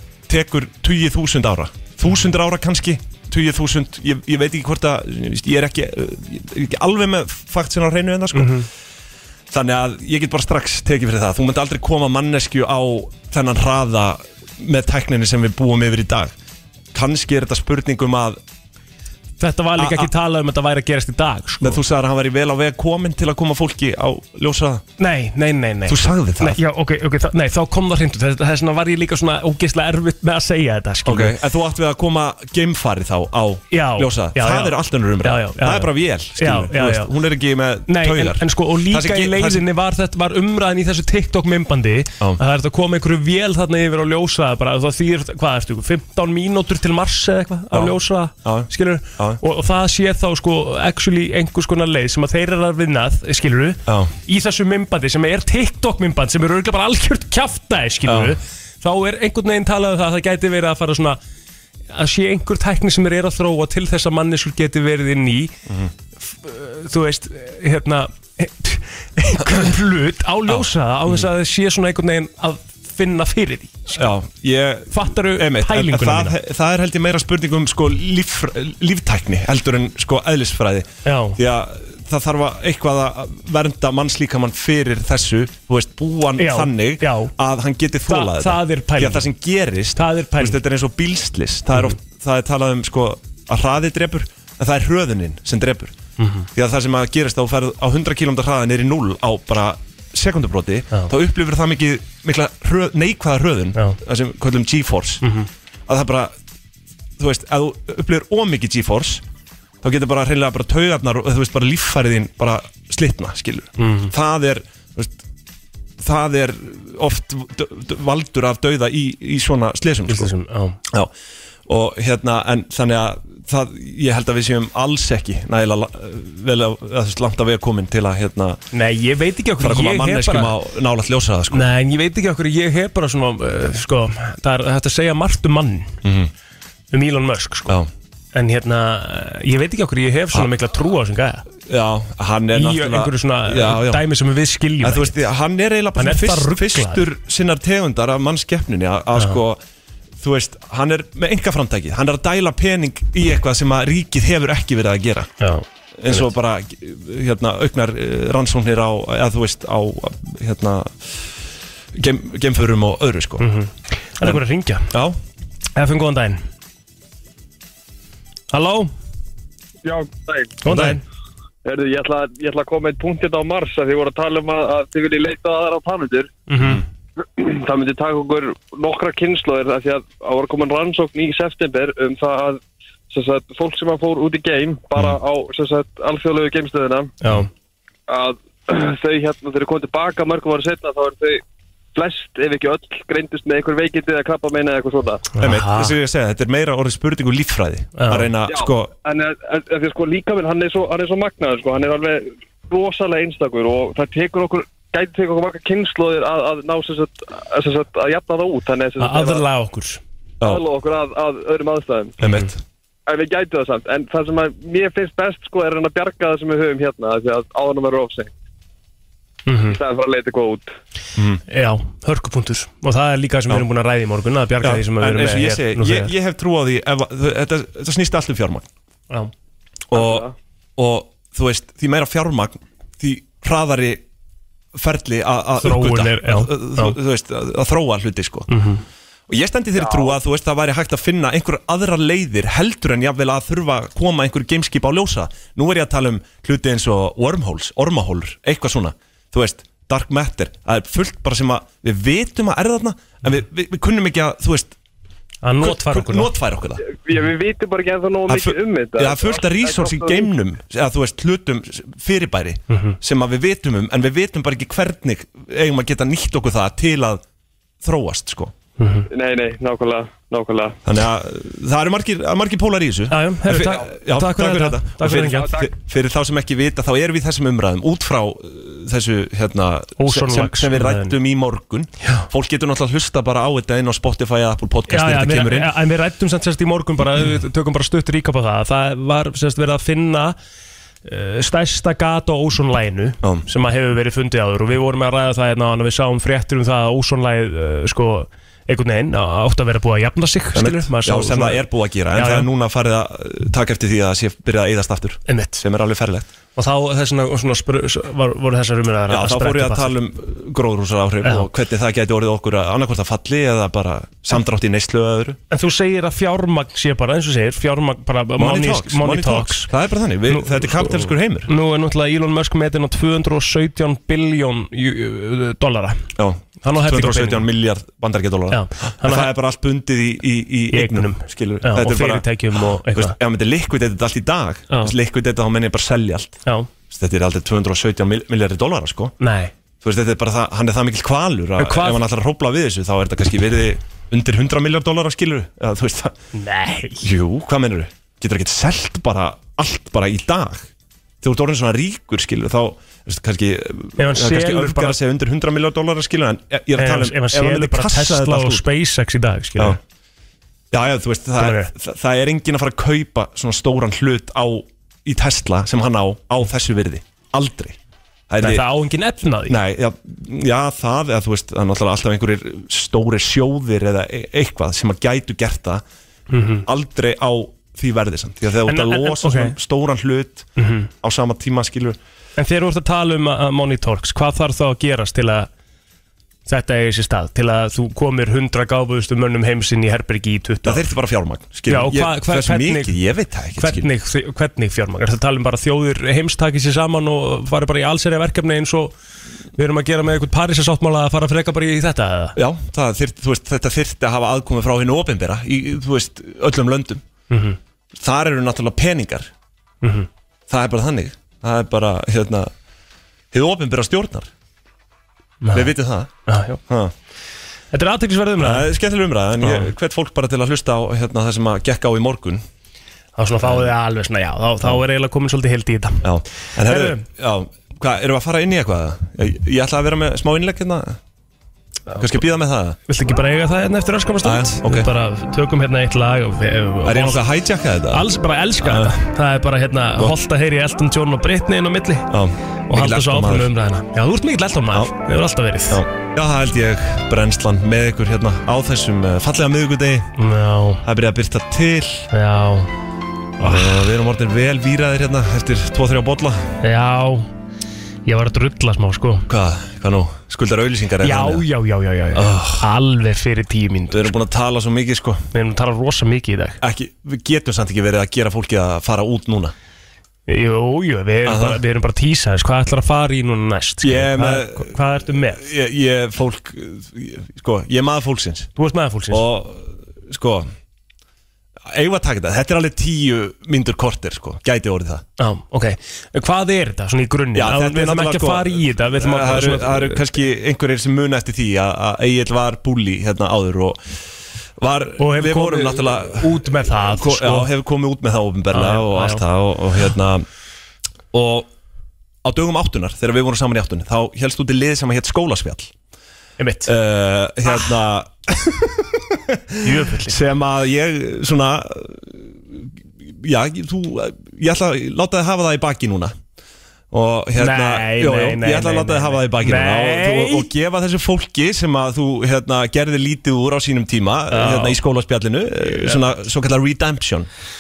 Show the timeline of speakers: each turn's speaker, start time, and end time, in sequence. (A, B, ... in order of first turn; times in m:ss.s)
0:00.3-0:08.7 A
0:08.3-0:08.7 B
0:09.5-0:16.4 A
0:16.9-0:18.4 A
0:19.4-0:21.8 B
0:19.8-0:20.1 A
0:21.6-0:24.8 A
0:25.0-0:31.4 B
0:25.9-0:26.6 A
0:31.0-0:39.7 A
0:33.7-0:37.1 B
0:37.9-1:01.2 B
0:47.7-0:49.4 A
0:53.9-0:54.1 A
0:58.1-0:58.4 A
1:01.9-1:05.6 B
1:06.2-1:14.0 B
1:10.5-1:11.3 A
1:14.0-1:36.0 A
1:14.9-1:16.4 B
1:21.0-1:21.4 B
1:26.4-1:27.3 B
1:28.1-1:29.3 B
1:30.0-1:30.6 B
1:36.2-1:36.5 B
1:36.5-1:45.2 A
1:45.2-1:45.5 B
1:45.9-1:46.3 A
1:47.2-1:49.2 A
1:49.8-1:55.2 A
1:53.8-1:54.1 B
1:56.0-2:00.3 A
2:00.1-2:00.8 B
2:01.7-2:08.6 A
2:08.7-2:10.5 B
2:09.6-2:11.7 A
2:11.5-2:16.0 B
2:16.0-2:16.3 A
2:16.9-2:17.8 B
2:18.3-2:21.5 B
2:21.7-2:24.0 A
2:22.5-2:25.2 B
2:24.8-2:29.6 A
2:26.0-2:27.1 B
2:30.2-2:35.3 A
2:35.4-2:36.3 B
2:36.0-2:41.3 A
2:41.9-2:43.5 A
2:43.4-2:44.9 B
2:44.2-2:45.2 A
2:45.8-2:46.4 B
2:48.5-2:48.9 B
2:49.8-2:50.6 C
2:50.6-2:51.0 B
2:50.7-2:51.0 A
2:51.6-2:56.4 C
2:56.5-2:56.8 B
2:57.4-3:07.2 C
3:07.2-3:07.5 B
3:08.1-3:11.4 C
3:12.0-3:15.3 C
3:15.4-3:16.0 B
3:15.4-3:18.9 A
3:18.0-3:18.3 B
3:18.5-3:29.4 C
3:29.0-3:30.0 B
3:30.4-3:32.2 C
3:32.2-3:32.6 A
3:32.2-3:32.5 B
3:33.1-3:38.3 C
3:39.5-3:39.8 B
3:39.6-3:40.7 C
3:41.2-3:41.4 A
3:41.5-3:46.1 B
3:44.6-3:48.7 A
3:49.9-3:54.0 A
3:49.9-3:50.3 C
3:54.7-3:58.5 A
3:55.6-3:57.0 B
3:58.5-3:58.8 B
3:59.3-4:14.7 A
3:59.8-4:00.1 C
4:15.4-4:16.3 B
4:15.6-4:16.8 A
4:16.8-4:20.3 C
4:18.3-4:27.2 A
4:22.7-4:23.0 B
4:27.8-4:28.5 A
4:28.8-4:29.1 B
4:29.1-4:30.8 C
4:30.8-4:45.8 A
4:33.1-4:35.6 B
4:40.0-4:41.2 B
4:44.9-4:50.4 B
4:51.0-5:02.5 B
5:00.5-5:06.3 A
5:05.3-5:05.6 B
5:06.6-5:10.0 B
5:09.1-5:15.4 A
5:15.5-5:19.7 B
5:18.4-5:21.5 A
5:20.3-5:26.1 B
5:26.2-5:39.1 A
5:26.6-5:27.5 B
5:28.5-5:29.3 B
5:30.7-5:33.2 B
5:39.2-5:39.5 B
5:39.8-5:46.2 A
5:41.6-5:42.0 B
5:46.3-5:47.1 B
5:47.0-5:50.7 A
5:51.2-5:58.7 A
5:54.0-5:55.0 B
5:56.8-5:59.8 B
6:00.7-6:07.8 A
6:01.4-6:01.7 B
6:08.3-6:08.7 A
6:08.4-6:09.6 B
6:09.5-6:15.8 A
6:16.3-6:16.7 B
6:16.7-6:20.5 A
6:18.7-6:19.6 B
6:20.6-6:20.9 B
6:21.0-6:22.0 A
6:22.4-6:25.5 B
6:26.5-6:30.8 B
6:30.6-6:33.9 A
6:31.7-6:33.0 B
6:33.6-6:38.9 B
6:39.6-6:42.4 B
6:42.4-6:47.0 A
6:47.3-6:47.6 B
6:47.9-6:49.3 A
6:49.8-6:50.1 B
6:50.5-6:52.5 A
6:53.3-6:54.3 A
6:55.4-6:56.6 B
6:55.5-6:56.1 A
6:56.7-6:56.9 A
6:57.7-6:58.7 B
6:58.4-7:02.4 A
6:59.4-6:59.7 B
7:03.2-7:06.1 B
7:03.4-7:03.7 A
7:06.0-7:11.0 A
7:06.6-7:07.0 B
7:12.0-7:12.8 A
7:12.9-7:17.2 B
7:14.2-7:14.9 A
7:16.8-7:18.1 A
7:17.9-7:22.1 B
7:18.6-7:18.9 A
7:22.1-7:23.5 A
7:22.7-7:25.8 B
7:25.7-7:30.1 A
7:30.2-7:30.8 B
7:30.8-7:32.1 A
7:32.1-7:32.7 B
7:33.4-7:33.8 B
7:33.4-7:36.5 A
7:36.6-7:37.3 B
7:38.1-7:39.3 B
7:39.3-7:41.5 A
7:41.0-7:44.1 B
7:42.1-7:42.7 A
7:43.9-7:45.3 A
7:45.3-7:46.6 B
7:46.6-7:49.5 A
7:50.3-7:55.5 B
7:51.2-7:51.6 A
7:53.8-7:58.5 A
7:58.6-7:59.3 B
7:59.1-8:00.5 A
8:01.7-8:05.0 A
8:05.2-8:10.0 B
8:07.4-8:13.8 A
8:14.6-8:20.3 A
8:15.0-8:17.5 B
8:18.5-8:19.2 B
8:21.1-8:21.5 A
8:22.2-8:25.7 A
8:26.4-8:26.7 B
8:26.6-8:36.1 A
8:29.6-8:30.2 B
8:36.9-8:47.3 A
8:37.4-8:40.5 B
8:44.3-8:44.8 B
8:45.7-8:46.0 B